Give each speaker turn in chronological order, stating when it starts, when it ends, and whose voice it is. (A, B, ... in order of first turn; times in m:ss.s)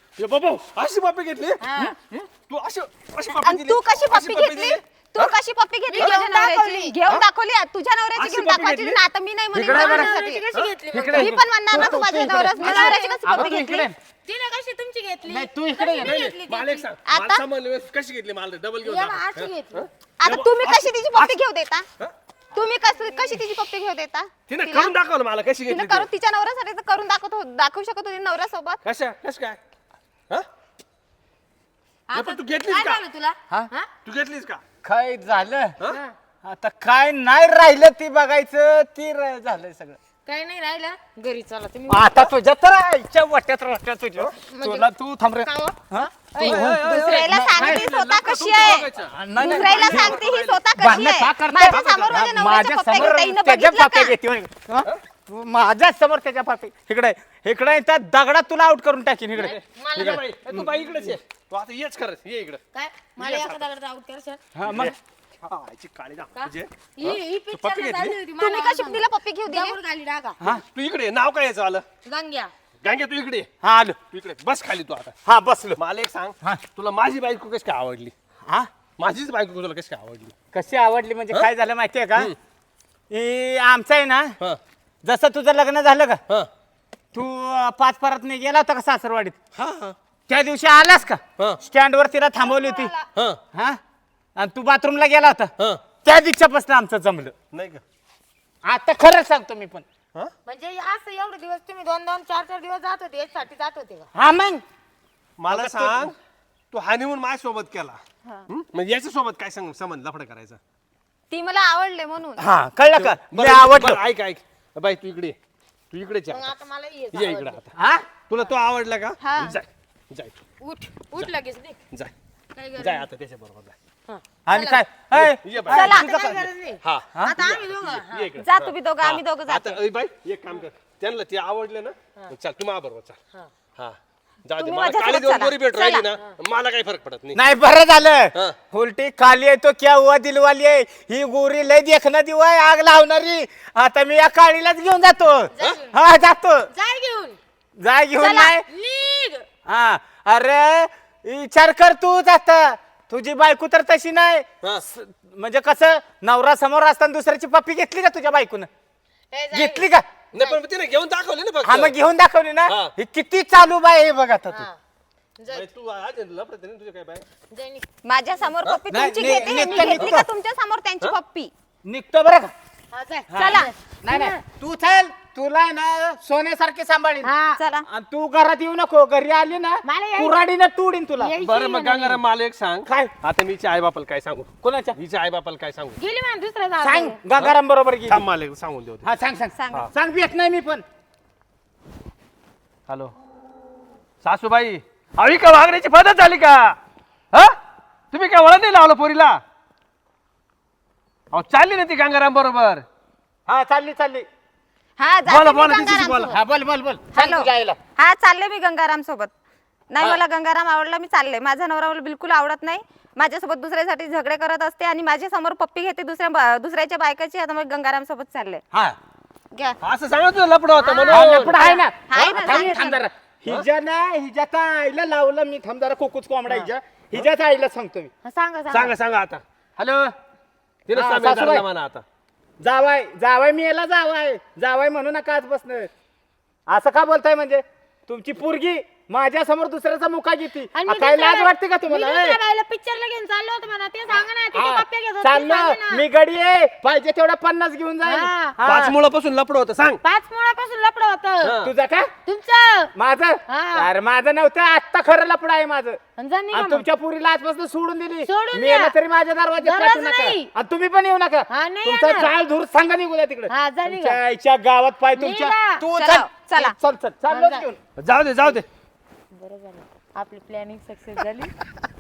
0:00.2-0:05.3 A
0:01.6-0:01.9 B
0:03.3-0:10.4 C
0:05.9-0:07.0 B
0:08.1-0:09.0 A
0:09.5-0:10.1 D
0:09.7-0:11.8 B
0:10.5-0:11.3 A
0:10.9-0:14.0 D
0:11.1-0:13.9 C
0:12.6-0:13.6 B
0:14.2-0:16.8 B
0:15.3-0:16.2 D
0:16.0-0:21.3 A
0:17.0-0:17.4 C
0:18.8-0:19.9 B
0:20.2-0:21.9 C
0:22.5-0:24.9 C
0:22.6-0:23.4 B
0:24.5-0:26.1 A
0:25.7-0:28.8 C
0:28.8-0:29.6 A
0:32.1-0:33.9 B
0:32.1-0:33.0 A
0:34.0-0:34.6 A
0:34.8-0:35.8 D
0:35.9-0:36.1 B
0:36.4-0:40.0 D
0:40.2-0:42.3 B
0:41.9-0:47.9 D
0:44.5-0:44.9 B
0:45.4-0:45.8 B
0:46.3-0:46.7 B
0:46.4-0:50.6 A
0:46.6-0:54.1 C
0:49.0-0:50.2 D
0:50.8-1:00.7 D
0:51.6-0:52.4 A
0:59.4-1:02.6 A
0:59.5-1:00.2 B
1:02.7-1:04.4 B
1:03.2-1:03.7 A
1:04.5-1:04.9 D
1:04.6-1:08.2 A
1:06.3-1:10.4 B
1:08.4-1:09.8 C
1:10.5-1:11.8 A
1:12.0-1:12.5 B
1:12.8-1:13.5 A
1:13.6-1:14.0 D
1:14.1-1:15.1 A
1:15.2-1:15.8 D
1:15.8-1:18.1 A
1:19.0-1:20.3 A
1:20.5-1:22.3 D
1:23.1-1:24.4 D
1:25.0-1:26.2 D
1:27.1-1:29.4 D
1:29.6-1:30.0 A
1:30.3-1:32.9 D
1:32.5-1:32.9 C
1:33.1-1:33.4 A
1:33.5-1:33.8 D
1:34.4-1:35.5 D
1:36.0-1:37.3 D
1:37.5-1:37.8 A
1:38.6-1:39.8 D
1:40.4-1:44.1 B
1:44.1-1:44.6 D
1:45.4-1:46.1 A
1:45.5-1:46.1 D
1:46.7-1:50.6 A
1:51.3-1:52.4 C
1:52.4-1:54.0 D
1:52.9-1:55.4 A
1:55.9-1:56.6 A
1:56.3-1:57.6 B
1:57.1-1:57.7 A
1:57.8-1:58.1 D
1:58.3-2:00.4 A
1:59.2-1:59.6 C
2:00.6-2:01.8 B
2:02.5-2:03.1 B
2:02.8-2:03.8 A
2:04.1-2:04.8 B
2:04.4-2:06.4 D
2:05.1-2:06.0 A
2:05.6-2:06.1 C
2:05.6-2:08.3 B
2:06.8-2:13.2 A
2:08.4-2:09.8 C
2:13.8-2:17.4 A
2:14.6-2:16.1 C
2:17.3-2:26.7 D
2:25.6-2:25.9 B
2:26.7-2:27.4 B
2:27.8-2:28.6 D
2:28.2-2:28.5 C
2:28.7-2:29.4 B
2:29.6-2:38.7 D
2:39.3-2:40.6 B
2:39.5-2:40.0 D
2:40.3-2:42.0 A
2:41.6-2:44.7 D
2:42.7-2:42.9 A
2:44.5-2:44.8 B
2:45.4-2:45.7 B
2:45.5-2:47.2 A
2:47.5-2:47.8 B
2:48.0-2:51.5 C
2:48.9-2:50.3 D
2:49.7-2:50.2 A
2:51.8-2:52.5 D
2:52.9-2:54.4 B
2:53.3-2:57.3 D
2:53.4-2:53.7 C
2:57.2-2:57.6 B
2:57.6-2:57.9 C
2:57.9-3:01.3 D
2:59.8-3:00.4 B
3:01.2-3:02.2 B
3:01.4-3:06.0 A
3:02.8-3:03.1 D
3:04.6-3:05.0 D
3:06.0-3:07.2 B
3:06.8-3:08.2 D
3:08.1-3:09.1 A
3:09.0-3:10.8 D
3:09.6-3:09.9 C
3:12.9-3:13.1 A
3:14.2-3:16.8 A
3:17.3-3:17.6 A
3:18.1-3:19.4 A
3:21.3-3:22.8 A
3:23.5-3:24.3 D
3:25.0-3:26.4 C
3:25.3-3:26.3 A
3:26.3-3:27.8 D
3:27.1-3:29.3 C
3:29.9-3:38.6 C
3:38.7-3:39.0 D
3:39.5-3:39.8 C
3:39.8-3:41.6 A
3:40.8-3:43.0 C
3:41.1-3:48.1 D
3:48.2-3:48.9 B
3:48.7-3:50.1 A
3:50.9-3:52.0 A
3:50.9-3:51.6 D
3:52.6-3:55.9 D
3:56.7-4:02.4 D
4:00.7-4:06.0 B
4:04.2-4:09.0 D
4:08.0-4:08.6 B
4:08.6-4:10.0 A
4:10.0-4:11.5 B
4:11.4-4:11.7 A
4:11.6-4:12.1 D
4:12.2-4:12.9 B
4:12.9-4:16.0 D
4:13.5-4:13.9 B
4:16.2-4:16.8 B
4:16.5-4:27.8 D
4:18.2-4:19.0 B
4:19.6-4:20.5 B
4:21.5-4:22.3 B
4:23.5-4:24.2 B
4:25.2-4:25.8 B
4:25.9-4:26.8 C
4:27.3-4:27.6 B
4:28.0-4:28.7 A
4:29.3-4:31.5 B